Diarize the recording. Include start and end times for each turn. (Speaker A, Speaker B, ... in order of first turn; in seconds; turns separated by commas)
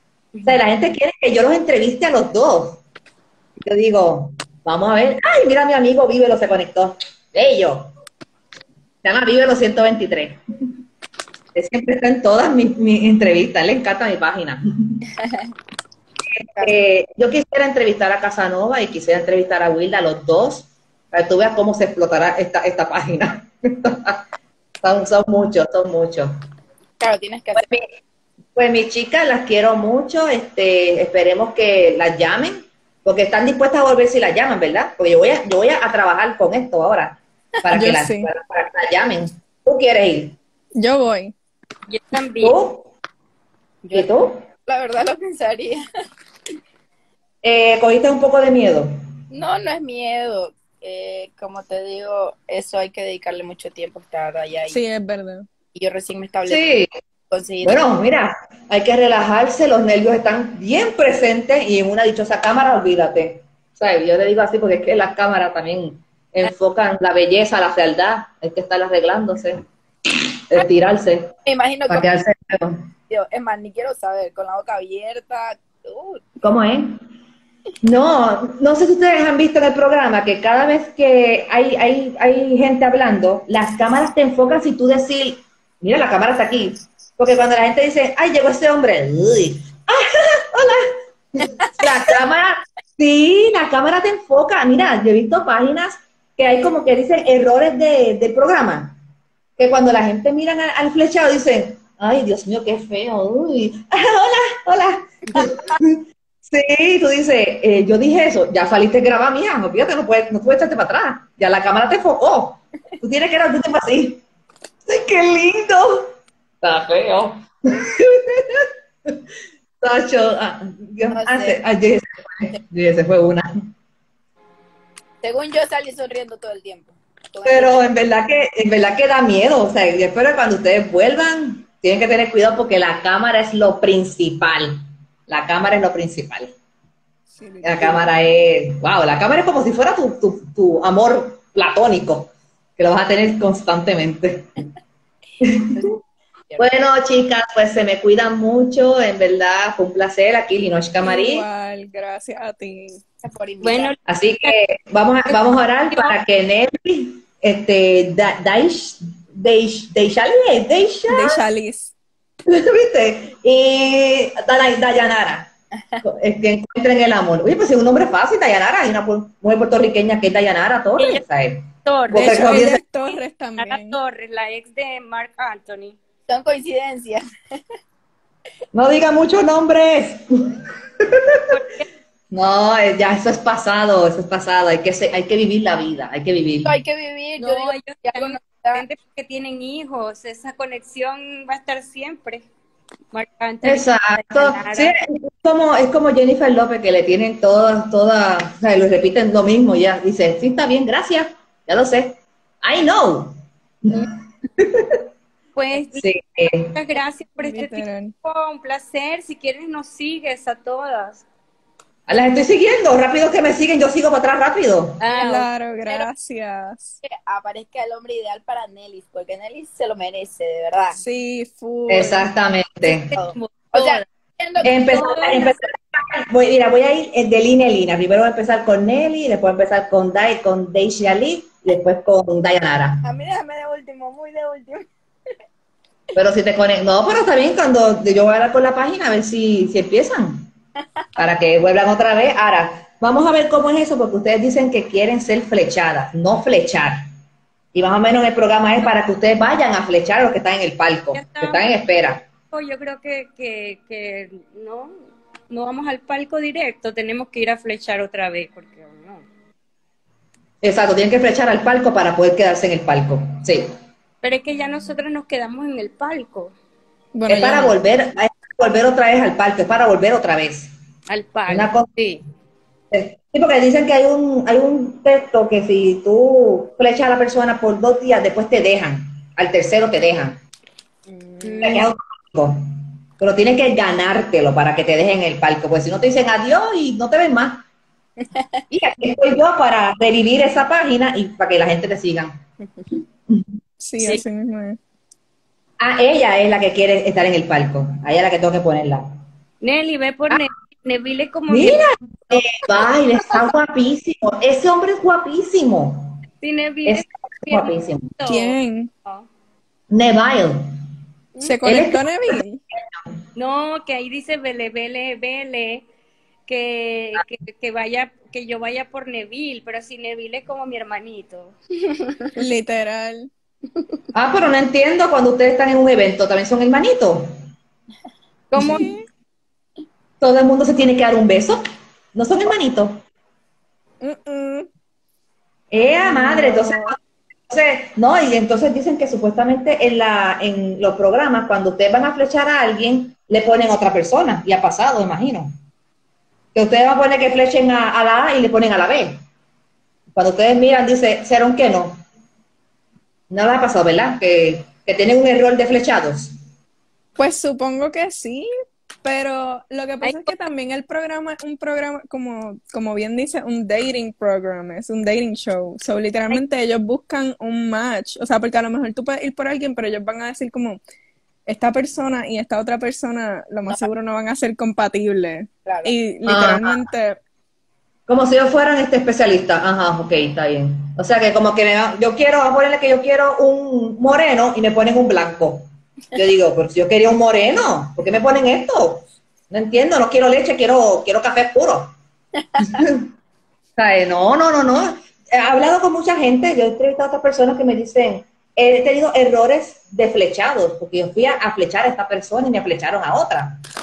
Speaker A: 0.4-2.8, Speaker A: 3.6-7.9, Speaker A: 9.0-10.4, Speaker A: 11.5-15.0, Speaker A: 16.3-24.2, Speaker A: 24.8-26.3, Speaker B: 27.0-27.7, Speaker A: 27.5-27.9, Speaker A: 28.5-40.4, Speaker C: 37.7-38.3, Speaker C: 40.8-41.3, Speaker D: 41.9-42.5, Speaker A: 42.4-42.9, Speaker B: 43.8-45.8, Speaker A: 43.9-44.4, Speaker A: 47.4-48.9, Speaker B: 49.3-54.8, Speaker C: 54.7-55.5, Speaker B: 55.7-56.6, Speaker A: 56.5-56.9, Speaker B: 57.3-57.8, Speaker A: 57.6-69.6, Speaker A: 70.5-71.3, Speaker B: 71.5-72.2, Speaker A: 71.9-72.8, Speaker B: 73.1-76.2, Speaker A: 76.4-77.0, Speaker A: 77.8-99.0, Speaker A: 99.6-114.2, Speaker A: 114.8-116.1, Speaker A: 116.6-119.2, Speaker A: 119.8-123.5, Speaker B: 121.1-121.6, Speaker B: 125.2-127.9, Speaker A: 127.4-136.5, Speaker C: 137.3-138.1, Speaker A: 137.6-144.5, Speaker A: 145.4-145.8, Speaker A: 146.6-151.4, Speaker C: 151.0-153.0, Speaker B: 153.2-153.9, Speaker D: 153.6-154.5, Speaker A: 154.1-161.4, Speaker D: 155.3-156.2, Speaker C: 161.1-161.9, Speaker A: 162.5-165.5, Speaker A: 166.0-172.8, Speaker D: 171.8-176.0, Speaker C: 172.1-174.0, Speaker B: 176.3-177.6, Speaker A: 178.7-181.5, Speaker D: 181.5-181.8, Speaker A: 182.3-186.7, Speaker B: 186.6-188.8, Speaker D: 187.4-192.4, Speaker D: 193.1-194.9, Speaker A: 193.6-205.0, Speaker D: 205.5-206.1, Speaker A: 205.9-206.8, Speaker D: 206.7-211.2, Speaker C: 207.4-208.1, Speaker A: 212.1-215.0, Speaker D: 215.0-216.1, Speaker C: 215.1-217.0, Speaker B: 217.0-221.0, Speaker C: 220.9-222.3, Speaker A: 221.9-223.1, Speaker D: 222.8-224.1, Speaker B: 223.1-225.6, Speaker A: 224.6-233.1, Speaker D: 224.9-225.2, Speaker B: 233.0-234.9, Speaker A: 236.1-240.5, Speaker A: 241.2-247.0, Speaker A: 247.7-252.2, Speaker D: 251.1-251.7, Speaker D: 252.5-254.9, Speaker D: 255.5-259.2, Speaker A: 260.6-263.7, Speaker D: 264.2-266.5, Speaker C: 267.1-267.8, Speaker A: 267.3-270.7, Speaker D: 271.1-272.2, Speaker A: 271.5-271.9, Speaker A: 272.9-280.4, Speaker B: 281.1-281.8, Speaker D: 281.4-281.9, Speaker A: 281.6-282.6, Speaker A: 283.2-287.6, Speaker B: 288.2-288.6, Speaker A: 288.7-292.4, Speaker A: 293.3-293.6, Speaker C: 293.8-294.8, Speaker A: 295.8-299.1, Speaker D: 299.6-302.9, Speaker A: 301.5-306.2, Speaker D: 306.4-309.3, Speaker A: 306.9-308.2, Speaker C: 308.2-308.9, Speaker A: 309.9-310.6, Speaker C: 311.4-312.6, Speaker A: 311.6-313.0, Speaker D: 313.3-315.9, Speaker D: 316.5-322.4, Speaker C: 322.3-323.3, Speaker A: 324.1-327.3, Speaker D: 328.5-328.9, Speaker C: 328.6-329.0, Speaker A: 330.2-331.6, Speaker A: 332.1-333.0, Speaker C: 334.0-334.7, Speaker A: 335.7-336.9, Speaker C: 336.0-336.9, Speaker A: 337.5-345.5, Speaker A: 346.5-349.2, Speaker A: 350.1-352.0, Speaker A: 353.3-356.3, Speaker C: 357.2-358.5, Speaker C: 359.0-370.8, Speaker D: 360.0-360.3, Speaker C: 371.5-377.2, Speaker B: 375.6-375.9, Speaker A: 376.2-376.9, Speaker A: 378.1-391.9, Speaker A: 392.6-393.1, Speaker A: 393.8-403.6